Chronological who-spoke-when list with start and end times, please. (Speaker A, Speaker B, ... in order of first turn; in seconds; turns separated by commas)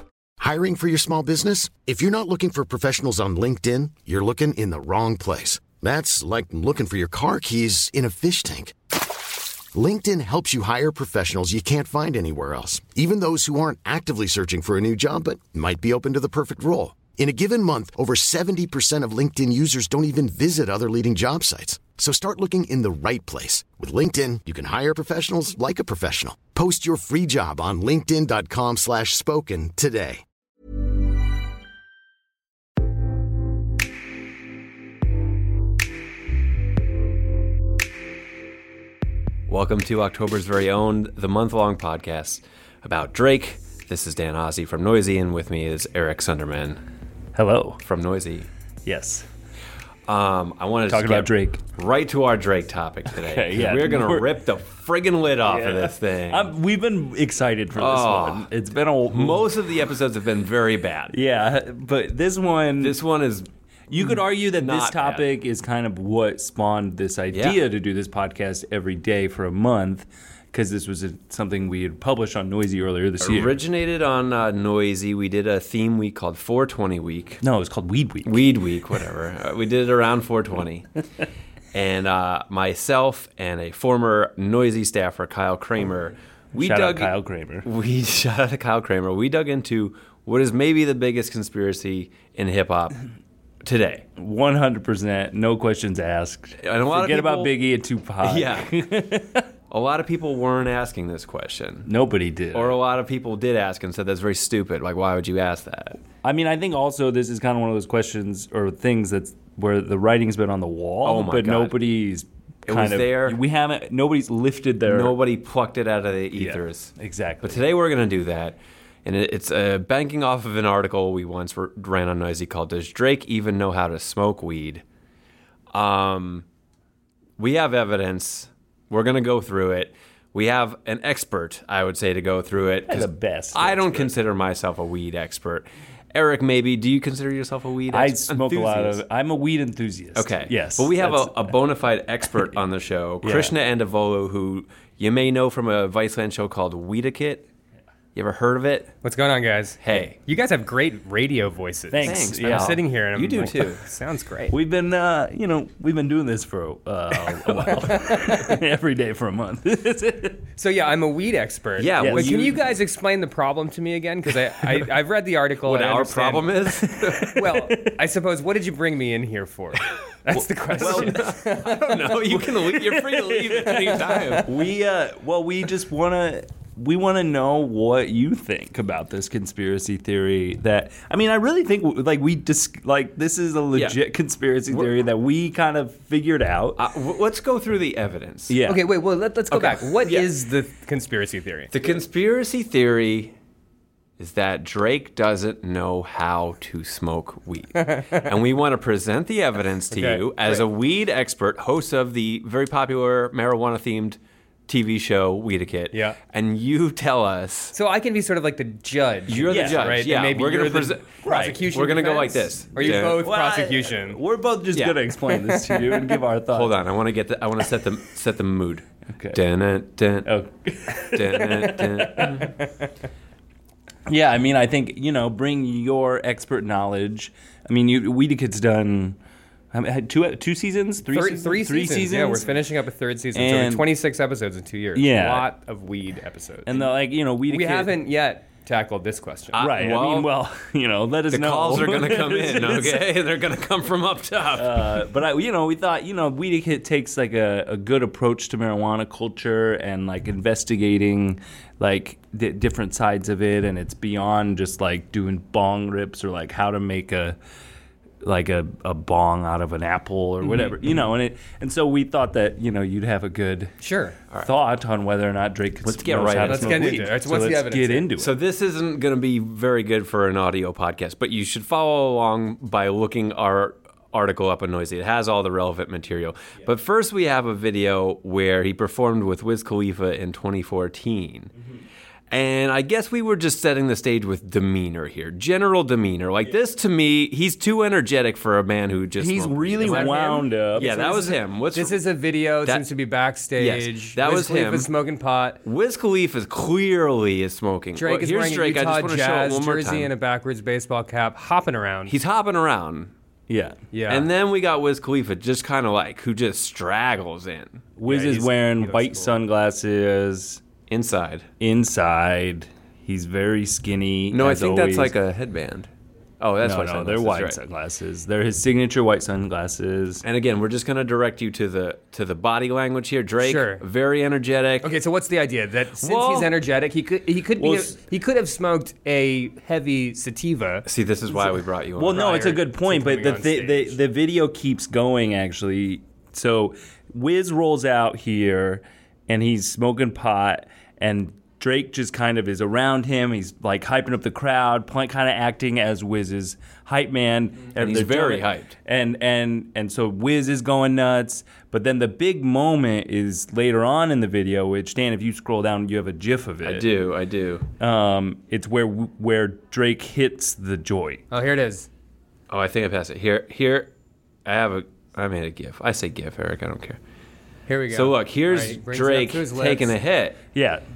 Speaker A: 0.4-8.8, Speaker A: 9.7-30.2, Speaker B: 39.5-46.8, Speaker C: 47.3-47.8, Speaker B: 47.8-48.5, Speaker C: 48.9-49.2, Speaker B: 50.1-56.5, Speaker C: 50.9-51.6, Speaker C: 53.1-54.3, Speaker C: 55.5-59.5, Speaker B: 57.8-58.5, Speaker B: 59.1-61.1, Speaker C: 61.1-63.0, Speaker B: 62.8-65.2, Speaker C: 63.9-73.5, Speaker B: 67.3-67.6, Speaker B: 73.2-77.4, Speaker C: 77.4-78.5, Speaker B: 78.2-80.9, Speaker B: 81.7-93.0, Speaker C: 86.6-87.7, Speaker B: 93.6-94.0, Speaker C: 94.2-99.5, Speaker B: 96.6-97.5, Speaker B: 98.2-98.7, Speaker B: 99.7-101.9, Speaker C: 101.8-102.8, Speaker B: 102.5-106.0, Speaker C: 106.2-115.2, Speaker B: 111.0-111.8, Speaker B: 112.7-113.4, Speaker B: 114.9-124.8, Speaker C: 116.3-117.6, Speaker B: 125.7-126.4, Speaker B: 127.4-139.0, Speaker C: 132.9-134.1, Speaker C: 137.9-141.6, Speaker B: 140.2-147.4, Speaker C: 143.2-143.5, Speaker B: 148.1-148.9, Speaker D: 149.0-154.5, Speaker B: 149.8-150.2, Speaker C: 151.9-152.8, Speaker B: 152.0-153.8, Speaker C: 154.5-160.4, Speaker D: 157.9-158.4, Speaker D: 160.6-166.6, Speaker B: 161.8-162.6, Speaker C: 162.0-162.3, Speaker B: 165.6-167.3, Speaker C: 167.2-167.9, Speaker D: 167.3-172.5, Speaker C: 170.3-171.2, Speaker B: 170.8-174.5, Speaker C: 172.8-173.7, Speaker C: 174.4-186.8, Speaker B: 186.8-188.6, Speaker C: 188.5-188.8, Speaker D: 188.7-191.7, Speaker B: 189.5-190.3, Speaker B: 191.7-193.3, Speaker B: 194.2-207.8, Speaker D: 197.8-198.2, Speaker D: 199.9-200.6, Speaker D: 205.9-206.2, Speaker D: 207.7-214.2, Speaker B: 209.3-213.3, Speaker C: 209.5-209.9, Speaker C: 211.2-211.7, Speaker C: 212.8-216.8, Speaker B: 214.7-215.1, Speaker B: 216.5-220.3, Speaker C: 219.1-219.4, Speaker C: 220.2-222.5, Speaker B: 221.1-222.5, Speaker C: 224.1-229.2, Speaker C: 229.7-232.5, Speaker D: 231.1-236.9, Speaker C: 233.3-233.8, Speaker C: 234.9-235.5, Speaker C: 236.7-237.9, Speaker D: 237.5-239.6, Speaker B: 239.5-240.3, Speaker C: 239.6-243.0, Speaker B: 241.3-245.0, Speaker C: 244.5-257.4, Speaker C: 258.2-263.8, Speaker D: 260.4-261.0, Speaker D: 263.8-264.2, Speaker C: 264.4-268.3, Speaker B: 265.8-267.1, Speaker D: 266.4-268.1, Speaker B: 268.2-281.5, Speaker B: 282.3-292.0, Speaker C: 289.2-291.4, Speaker D: 289.8-295.6, Speaker B: 293.6-294.9, Speaker B: 295.6-300.1, Speaker D: 297.9-302.1, Speaker B: 302.1-303.1, Speaker C: 303.5-303.8, Speaker D: 303.9-304.3, Speaker B: 304.1-307.8, Speaker C: 308.0-310.6, Speaker D: 308.1-309.4, Speaker B: 310.9-311.5, Speaker C: 311.6-315.1, Speaker B: 314.3-315.9, Speaker B: 316.4-317.6, Speaker C: 316.6-320.2, Speaker B: 320.2-324.9, Speaker D: 323.4-323.8, Speaker D: 324.8-330.9, Speaker B: 326.0-326.5, Speaker C: 327.6-327.9, Speaker B: 330.8-332.3, Speaker C: 332.0-356.9, Speaker D: 332.1-333.9, Speaker B: 347.7-348.7, Speaker B: 356.6-357.6, Speaker C: 357.8-361.2, Speaker D: 361.3-361.9, Speaker B: 362.5-363.9, Speaker B: 364.4-367.0, Speaker D: 367.7-369.9, Speaker B: 367.9-370.4, Speaker C: 370.5-370.8